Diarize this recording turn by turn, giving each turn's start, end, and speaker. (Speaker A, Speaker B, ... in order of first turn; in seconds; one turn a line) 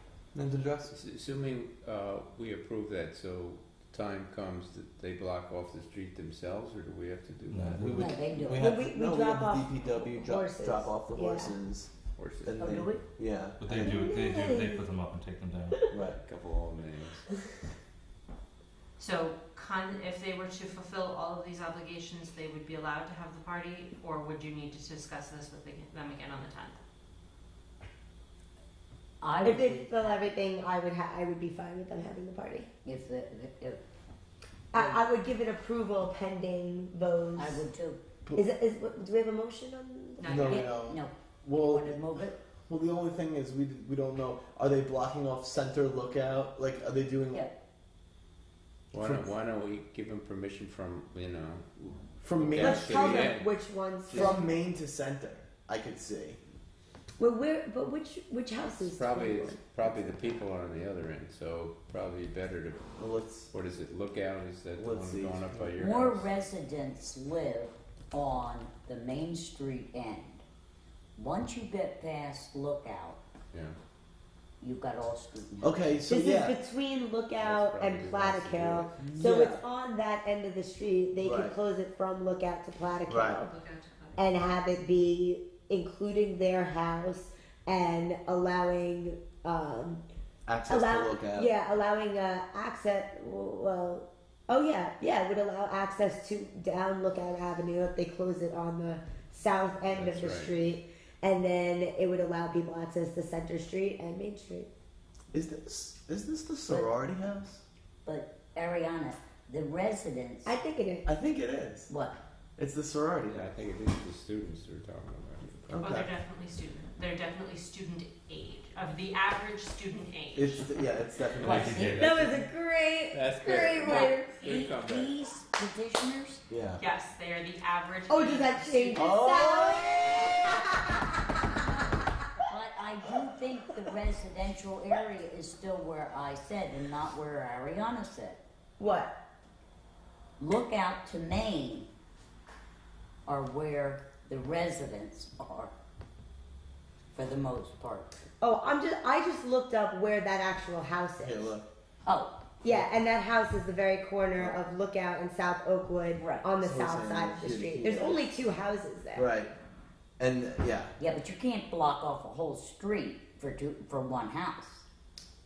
Speaker A: 0.3-0.9
Speaker B: 0.9-8.2
Speaker C: 7.5-8.4
Speaker A: 7.8-11.9
Speaker D: 8.0-8.6
Speaker E: 8.6-11.6
Speaker B: 12.2-12.8
Speaker A: 12.4-14.0
Speaker D: 12.6-13.0
Speaker C: 13.6-15.9
Speaker E: 13.9-14.9
Speaker A: 15.9-16.2
Speaker B: 16.2-17.2
Speaker F: 19.0-26.8
Speaker D: 29.2-30.3
Speaker E: 29.4-32.7
Speaker D: 32.9-33.8
Speaker E: 34.7-37.6
Speaker D: 37.4-38.0
Speaker E: 38.4-40.7
Speaker F: 40.2-40.7
Speaker A: 40.2-47.5
Speaker D: 40.5-42.2
Speaker B: 48.9-53.6
Speaker A: 49.0-49.2
Speaker A: 52.2-53.3
Speaker E: 52.6-54.5
Speaker B: 54.1-54.3
Speaker A: 54.1-56.4
Speaker E: 57.2-60.1
Speaker B: 58.8-62.9
Speaker A: 63.0-63.5
Speaker B: 63.5-66.3
Speaker A: 64.8-65.8
Speaker D: 65.8-70.4
Speaker D: 71.2-73.2
Speaker D: 74.6-75.7
Speaker A: 75.6-76.5
Speaker E: 76.1-83.5
Speaker B: 77.4-79.0
Speaker D: 79.0-79.4
Speaker A: 79.2-79.6
Speaker A: 81.2-81.5
Speaker A: 83.1-83.4
Speaker F: 83.4-84.2
Speaker E: 84.2-90.0
Speaker A: 90.5-91.5
Speaker E: 90.7-104.7
Speaker B: 99.9-100.6
Speaker A: 105.3-107.6
Speaker D: 108.0-110.5
Speaker E: 110.5-111.1
Speaker A: 111.1-111.9
Speaker A: 112.6-113.5
Speaker B: 113.3-115.9
Speaker A: 115.7-116.1
Speaker F: 115.8-120.7
Speaker A: 120.3-122.1
Speaker C: 121.4-122.4
Speaker D: 121.4-121.9
Speaker E: 122.0-124.5
Speaker B: 123.1-125.2
Speaker D: 123.9-126.4
Speaker A: 126.5-126.8
Speaker F: 126.8-129.2
Speaker E: 128.1-131.1
Speaker A: 128.9-130.2
Speaker D: 132.5-138.4
Speaker E: 138.8-139.2
Speaker D: 140.4-141.9
Speaker D: 143.3-145.7
Speaker D: 147.1-148.2
Speaker E: 148.4-151.6
Speaker A: 151.2-151.7
Speaker D: 152.1-152.5
Speaker E: 152.6-159.3
Speaker A: 156.6-158.2
Speaker A: 159.2-159.5
Speaker A: 160.2-161.0
Speaker D: 161.0-164.9